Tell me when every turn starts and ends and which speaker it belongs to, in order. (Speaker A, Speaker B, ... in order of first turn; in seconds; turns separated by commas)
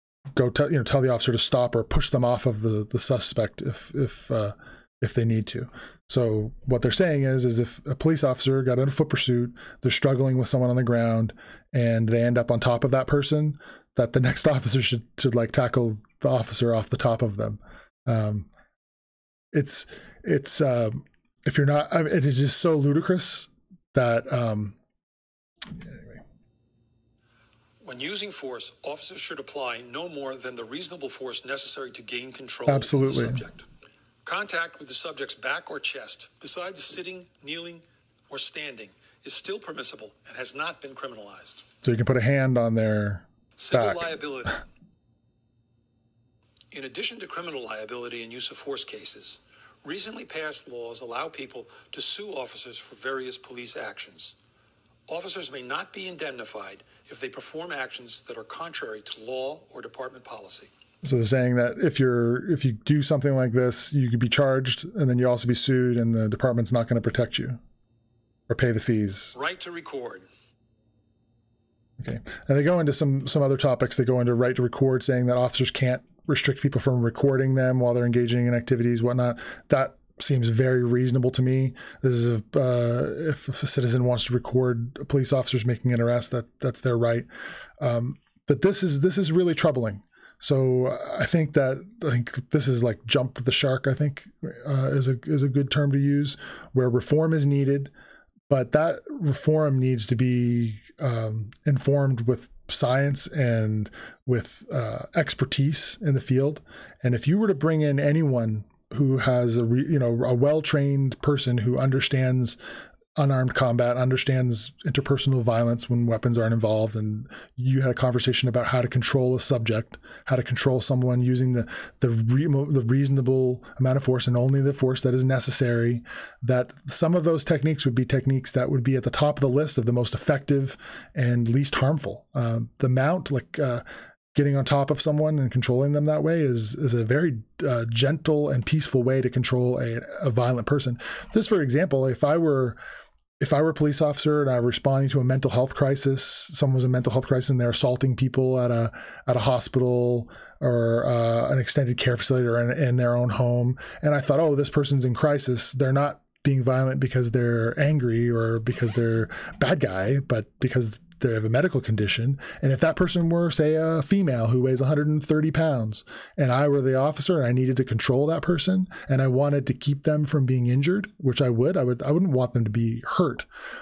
Speaker A: 0.3-18.5, Speaker A: 19.5-24.8, Speaker A: 25.8-26.2, Speaker B: 27.8-33.6, Speaker A: 32.7-33.4, Speaker B: 34.2-41.6, Speaker A: 41.8-44.1, Speaker B: 43.6-44.6, Speaker B: 46.7-54.4, Speaker B: 55.1-60.7, Speaker A: 61.0-67.6, Speaker A: 68.5-69.3, Speaker B: 69.3-70.3, Speaker A: 72.0-87.3, Speaker A: 87.8-97.9, Speaker A: 98.5-112.6, Speaker A: 113.2-142.8, Speaker A: 143.4-173.4